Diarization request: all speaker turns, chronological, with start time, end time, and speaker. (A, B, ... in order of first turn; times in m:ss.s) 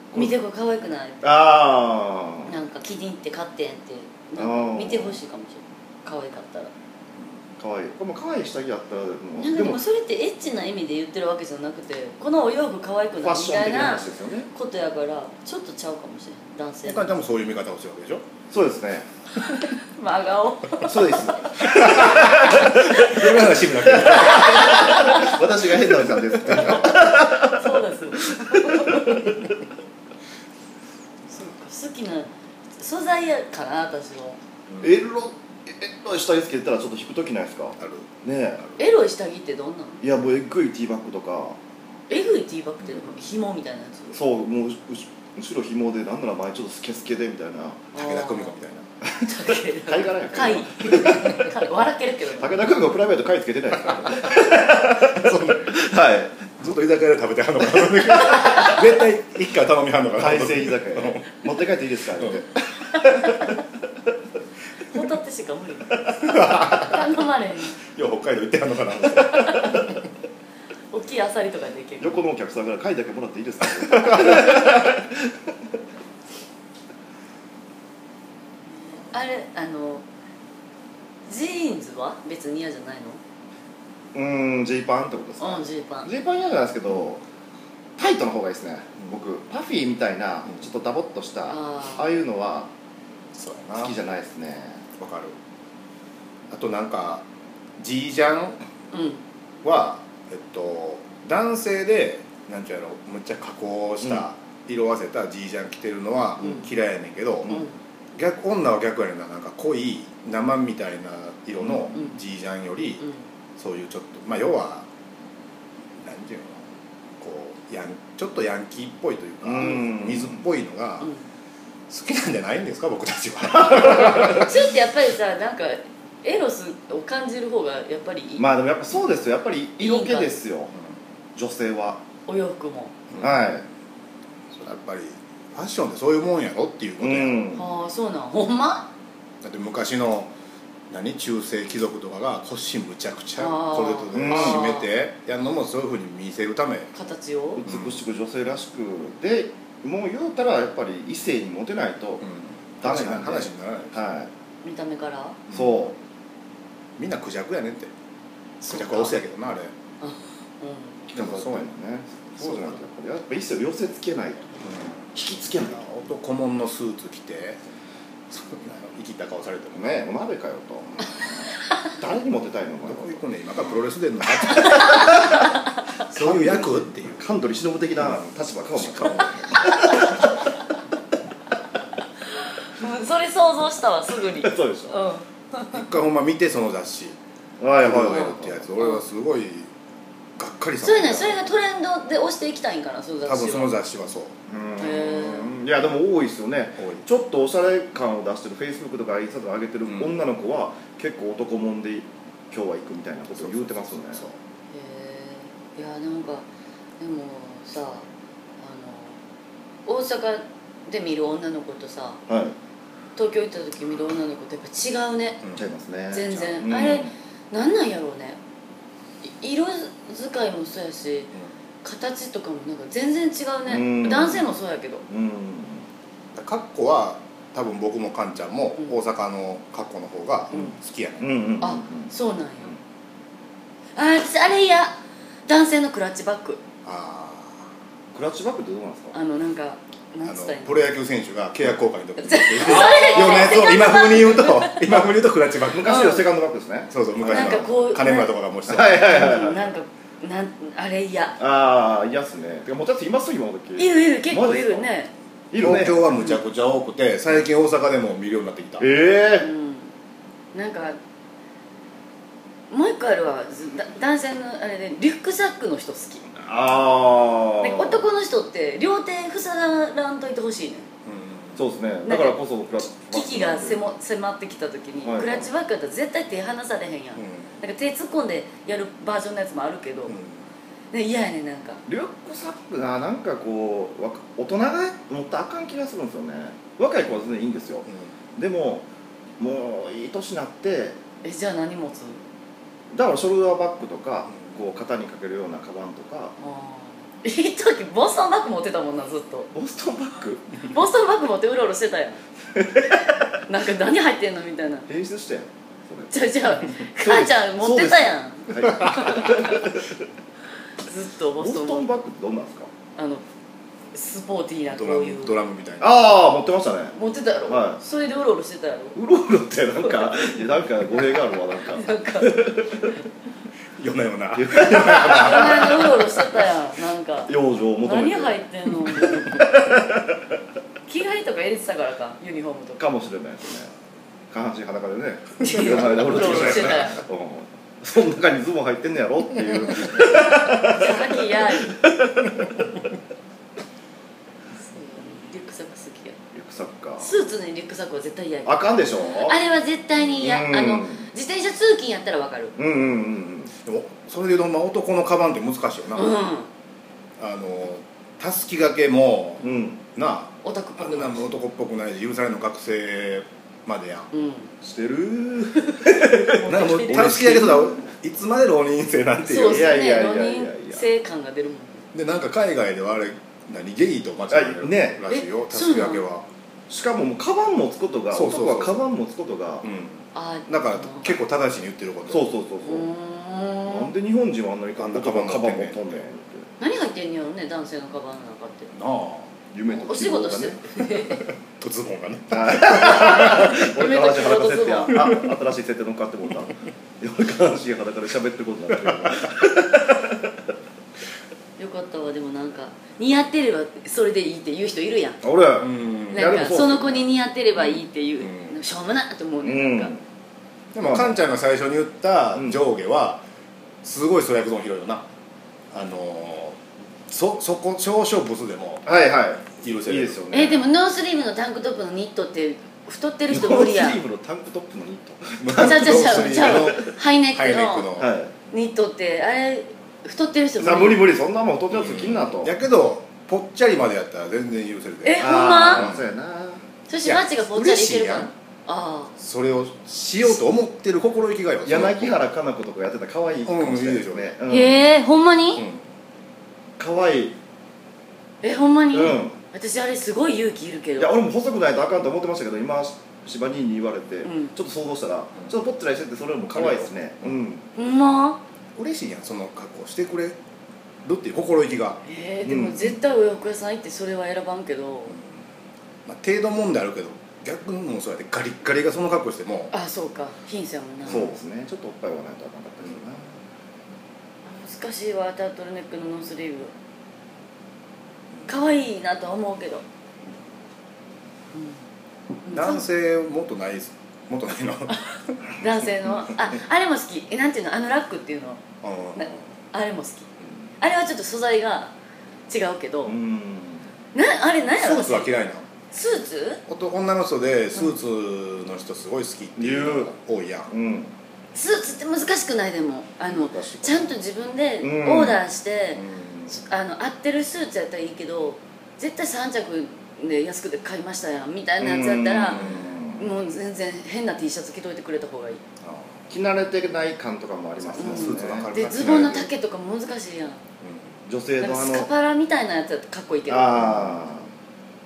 0:00.1-0:01.3 A
0:01.2-0:02.5 B
0:02.5-0:06.7 A
0:04.4-0:05.2 B
0:07.6-0:09.8 B
0:09.4-0:17.2 A
0:13.2-0:14.5 B
0:16.8-0:18.2 C
0:18.5-0:19.0 B
0:19.4-0:22.1 A
0:20.8-0:27.8 B
0:21.6-0:25.1 C
0:22.8-0:23.2 A
0:24.1-0:25.4 A
0:26.4-0:27.0 C
0:27.2-0:29.4 A
0:28.3-0:29.4 B
0:31.3-0:34.4 A
0:34.8-0:38.7 B
0:37.8-0:38.1 C
0:38.8-0:40.0 A
0:40.0-0:41.6 B
0:42.1-0:44.2 A
0:44.1-0:47.9 B
0:47.9-0:48.5 A
0:47.9-0:48.9 C
0:49.0-0:51.5 B
0:49.2-0:52.6 A
0:52.4-0:56.5 B
0:54.3-0:55.7 C
0:56.6-1:01.2 C
0:57.8-0:58.6 B
1:00.2-1:02.5 B
1:03.1-1:03.4 A
1:04.9-1:07.8 A
1:06.2-1:07.0 C
1:07.9-1:09.9 C
1:09.3-1:09.9 A
1:10.9-1:12.2 A
1:12.0-1:15.4 B
1:13.9-1:14.7 C
1:19.0-1:20.0 A
1:21.3-1:23.2 A
1:24.1-1:27.2 B
1:25.4-1:26.1 A
1:28.0-1:32.7 B
1:31.5-1:32.1 A
1:33.3-1:33.9 C
1:33.8-1:34.8 B
1:35.0-1:35.4 C
1:36.5-1:37.2 C
1:37.8-1:38.6 C
1:38.9-1:39.2 A
1:39.6-1:47.6 C
1:48.2-1:53.0 C
1:51.6-1:51.9 B
1:53.6-1:54.9 C
1:56.0-1:56.7 C
1:57.2-2:01.1 C
1:59.4-2:00.4 B
2:01.9-2:04.6 C
2:03.7-2:04.3 B
2:04.1-2:08.4 A
2:08.4-2:10.7 B
2:09.8-2:10.3 A
2:11.4-2:12.0 B
2:12.3-2:12.9 A
2:13.2-2:13.6 B
2:14.5-2:17.4 C
2:17.0-2:17.7 B
2:17.5-2:18.9 A
2:19.4-2:20.3 C
2:20.9-2:26.9 C
2:23.4-2:24.8 A
2:24.1-2:24.7 B
2:26.9-2:27.6 A
2:27.6-2:32.2 B
2:27.6-2:28.0 C
2:32.2-2:34.0 C
2:32.8-2:34.3 B
2:34.6-2:35.4 A
2:35.5-2:35.8 C
2:35.5-2:36.0 B
2:37.0-2:37.9 C
2:38.6-2:39.2 A
2:38.7-2:39.7 C
2:40.0-2:41.0 A
2:41.1-2:44.6 B
2:41.1-2:41.7 C
2:42.4-2:42.8 C
2:44.6-2:45.0 C
2:45.1-2:45.9 B
2:45.6-2:47.6 C
2:48.3-2:50.0 C
2:49.8-2:53.2 B
2:52.8-2:55.3 C
2:54.6-2:55.4 B
2:54.6-2:55.0 A
2:56.1-2:57.2 C
2:56.1-3:00.3 B
2:58.0-2:59.7 C
3:02.4-3:05.8 A
3:04.4-3:05.0 B
3:05.7-3:07.2 C
3:07.6-3:08.7 B
3:07.8-3:09.7 C
3:10.4-3:11.4 C
3:10.8-3:13.7 A
3:13.2-3:14.3 C
3:14.5-3:24.2 B
3:14.8-3:15.6 A
3:23.3-3:24.0 C
3:24.2-3:26.4 A
3:27.0-3:28.1 A
3:28.6-3:29.2 A
3:29.8-3:32.2 A
3:32.3-3:32.6 B
3:33.2-3:35.4 A
3:35.6-3:37.1 B
3:36.1-3:38.4 A
3:39.2-3:41.3 A
3:41.8-3:45.0 A
3:43.7-3:44.5 B
3:45.1-3:45.9 B
3:46.3-3:51.3 C
3:50.5-3:52.1 B
3:51.6-3:52.7 A
3:54.0-3:56.6 A
3:56.8-3:57.7 C
3:58.1-3:59.2 B
3:59.1-4:00.7 A
4:00.2-4:06.0 C
4:02.2-4:04.8 A
4:05.7-4:07.7 B
4:05.8-4:06.2 A
4:06.9-4:09.1 C
4:07.2-4:08.3 A
4:08.7-4:09.7 B
4:09.0-4:11.4 A
4:11.4-4:14.8 B
4:13.8-4:15.1 A
4:15.5-4:16.0 B
4:15.6-4:18.9 C
4:16.1-4:16.4 A
4:18.8-4:19.5 B
4:19.4-4:19.9 A
4:20.5-4:21.0 A
4:22.7-4:26.3 A
4:26.4-4:28.0 B
4:27.6-4:30.9 A
4:31.0-4:31.6 C
4:31.6-4:33.8 B
4:32.0-4:32.4 A
4:33.1-4:40.2 A
4:35.0-4:35.5 B
4:37.2-4:37.5 C
4:40.1-4:40.4 C
4:40.9-4:41.8 A
4:41.9-4:48.8 B
4:49.4-4:51.0 B
4:51.2-4:52.2 A
4:52.9-4:56.4 B
4:56.4-4:59.5 A
4:59.5-5:00.4 B
5:00.6-5:02.2 A
5:02.5-5:03.2 B
5:03.4-5:04.9 A
5:04.9-5:06.3 B
5:06.1-5:09.6 A
5:07.0-5:09.9 B
5:10.8-5:11.9 A
5:11.4-5:12.7 B
5:13.0-5:13.2 A
5:13.9-5:15.4 A
5:14.7-5:15.9 C
5:15.8-5:17.0 B
5:16.9-5:19.0 A
5:17.5-5:17.8 B
5:19.0-5:23.0 B
5:21.6-5:22.9 A
5:23.8-5:25.9 C
5:24.3-5:26.0 B
5:25.0-5:29.4 A
5:27.3-5:28.4 B
5:29.0-5:30.2 B
5:30.9-5:32.8 A
5:32.8-5:33.7 B
5:34.3-5:42.6 B
5:35.4-5:37.0 A
5:35.5-5:37.0 C
5:40.6-5:41.8 A
5:44.6-5:46.2 A
5:46.3-5:47.1 B
5:47.0-5:52.5 A
5:48.4-5:49.4 B
5:50.2-5:51.1 B
5:52.6-5:53.5 B
5:53.6-5:56.2 C
5:55.9-5:56.5 A
5:57.2-6:04.1 C
5:59.4-5:59.8 B
6:00.4-6:01.3 A
6:04.1-6:04.5 A
6:04.6-6:07.5 B
6:06.2-6:07.7 A
6:06.4-6:09.7 C
6:09.3-6:11.9 A
6:09.4-6:10.8 B
6:11.9-6:16.3 C
6:14.3-6:15.0 B
6:15.1-6:16.0 A
6:16.7-6:19.6 B
6:18.1-6:18.8 C
6:19.6-6:22.3 C
6:20.1-6:21.2 A
6:22.1-6:22.9 B
6:22.6-6:23.9 A
6:23.6-6:26.5 B
6:24.8-6:26.0 C
6:26.6-6:28.7 A
6:28.7-6:29.3 C
6:29.5-6:30.6 B
6:29.7-6:31.2 A
6:31.0-6:33.6 C
6:32.3-6:40.3 B
6:32.9-6:35.0 A
6:38.8-6:39.3 C
6:41.6-6:45.2 A
6:45.2-6:47.0 B
6:45.6-6:46.4 C
6:46.1-6:49.9 A
6:47.6-6:48.6 C
6:49.4-6:50.0 B
6:50.7-6:53.2 C
6:50.8-6:51.2 B
6:53.8-6:55.1 C
6:55.7-6:58.8 C
6:58.8-7:00.6 B
6:59.5-7:00.2 C
7:00.3-7:04.0 A
7:03.3-7:06.9 B
7:05.4-7:08.1 C
7:05.5-7:07.9 A
7:08.0-7:08.3 B
7:08.5-7:11.1 A
7:10.6-7:12.5 B
7:11.7-7:16.0 C
7:15.0-7:15.8 A
7:15.2-7:16.6 B
7:16.9-7:19.1 A
7:17.0-7:18.3 C
7:19.2-7:22.2 C
7:21.6-7:24.8 B
7:23.4-7:24.3 C
7:24.5-7:25.6 A
7:25.6-7:25.8 C
7:26.8-7:27.4 B
7:28.4-7:31.1 A
7:28.9-7:29.4 B
7:31.0-7:37.7 B
7:34.2-7:34.5 A
7:36.5-7:37.4 C
7:37.8-7:38.4 A
7:38.8-7:40.4 C
7:41.0-7:42.0 C
7:42.0-7:45.2 A
7:42.4-7:42.9 B
7:46.0-7:49.7 C
7:49.7-7:51.3 A
7:51.1-7:51.3 C
7:51.1-7:53.3 B
7:54.5-7:56.7 A
7:58.5-7:59.8 A
8:02.4-8:02.8 A
8:02.5-8:05.4 C
8:05.5-8:08.6 A
8:08.8-8:09.4 C
8:09.2-8:10.3 A
8:10.8-8:11.9 A
8:12.5-8:13.1 A
8:13.0-8:13.9 B
8:14.1-8:15.3 A
8:14.7-8:15.7 C
8:15.9-8:16.6 A
8:16.7-8:20.7 C
8:19.6-8:20.1 B
8:20.7-8:21.1 B
8:21.5-8:32.6 A
8:23.5-8:24.0 B
8:24.8-8:25.4 B
8:26.0-8:26.5 C
8:31.8-8:33.3 B
8:32.5-8:32.9 C
8:33.2-8:35.6 A
8:35.8-8:36.3 C
8:36.3-8:38.7 B
8:37.8-8:39.5 C
8:38.0-8:40.6 A
8:40.8-8:41.1 C
8:41.2-8:42.1 B
8:41.6-8:44.3 A
8:43.5-8:44.5 B